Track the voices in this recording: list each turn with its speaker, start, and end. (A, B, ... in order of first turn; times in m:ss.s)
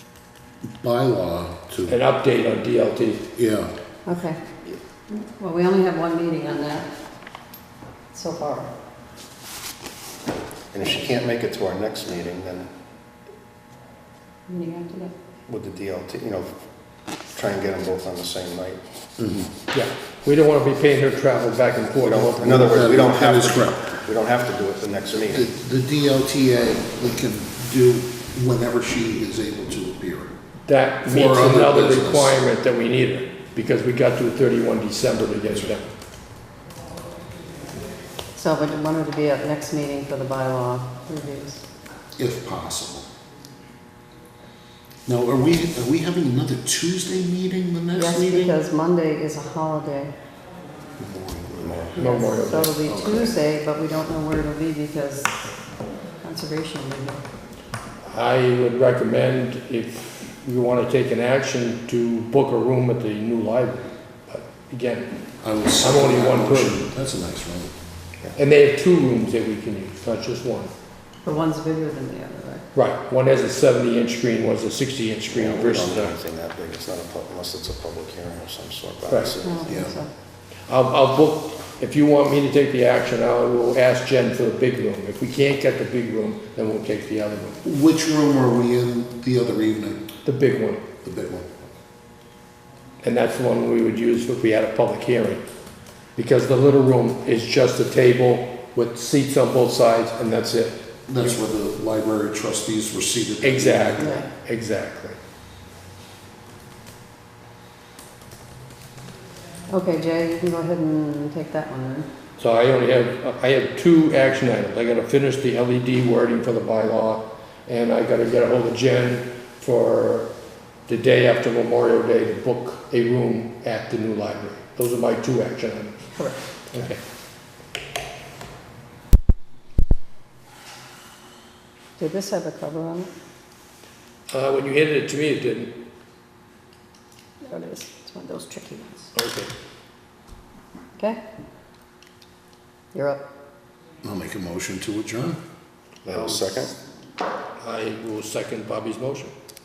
0:00.8-0:02.0 A
0:01.9-0:03.2 B
0:03.4-0:03.7 A
0:04.0-0:04.4 C
0:05.1-0:06.9 C
0:08.1-0:08.7 C
0:10.7-0:12.7 D
0:14.5-0:15.1 C
0:15.5-0:16.5 D
0:17.3-0:18.8 D
0:19.2-0:19.5 A
0:19.7-0:22.9 B
0:21.9-0:25.5 D
0:22.6-0:24.0 A
0:25.3-0:30.3 A
0:30.6-0:35.9 B
0:31.1-0:32.4 A
0:38.4-0:41.6 C
0:42.2-0:43.1 A
0:45.0-0:48.6 A
0:47.9-0:50.1 C
0:51.0-0:52.0 A
0:52.0-0:55.5 C
0:52.0-0:52.7 B
0:52.8-0:53.4 A
0:56.2-0:57.2 C
0:58.1-1:05.2 B
1:05.4-1:07.7 A
1:05.8-1:06.8 B
1:08.4-1:10.7 B
1:11.2-1:12.6 C
1:12.7-1:16.1 B
1:15.3-1:19.8 D
1:19.1-1:19.3 B
1:19.4-1:20.1 C
1:19.7-1:19.9 A
1:20.7-1:27.6 B
1:27.6-1:30.0 A
1:30.2-1:30.8 B
1:31.0-1:31.7 A
1:33.0-1:35.4 B
1:36.2-1:41.3 B
1:41.1-1:44.1 A
1:43.4-1:45.2 B
1:44.0-1:44.3 C
1:49.7-1:52.1 C
1:52.4-2:00.3 B
2:00.9-2:06.2 B
2:06.2-2:06.4 C
2:06.7-2:07.0 B
2:12.0-2:13.1 C
2:14.3-2:15.7 B
2:17.4-2:19.1 C
2:19.1-2:19.5 B
2:22.9-2:23.2 C
2:24.0-2:25.4 A
2:26.0-2:26.7 D
2:26.1-2:26.4 B
2:27.6-2:29.3 B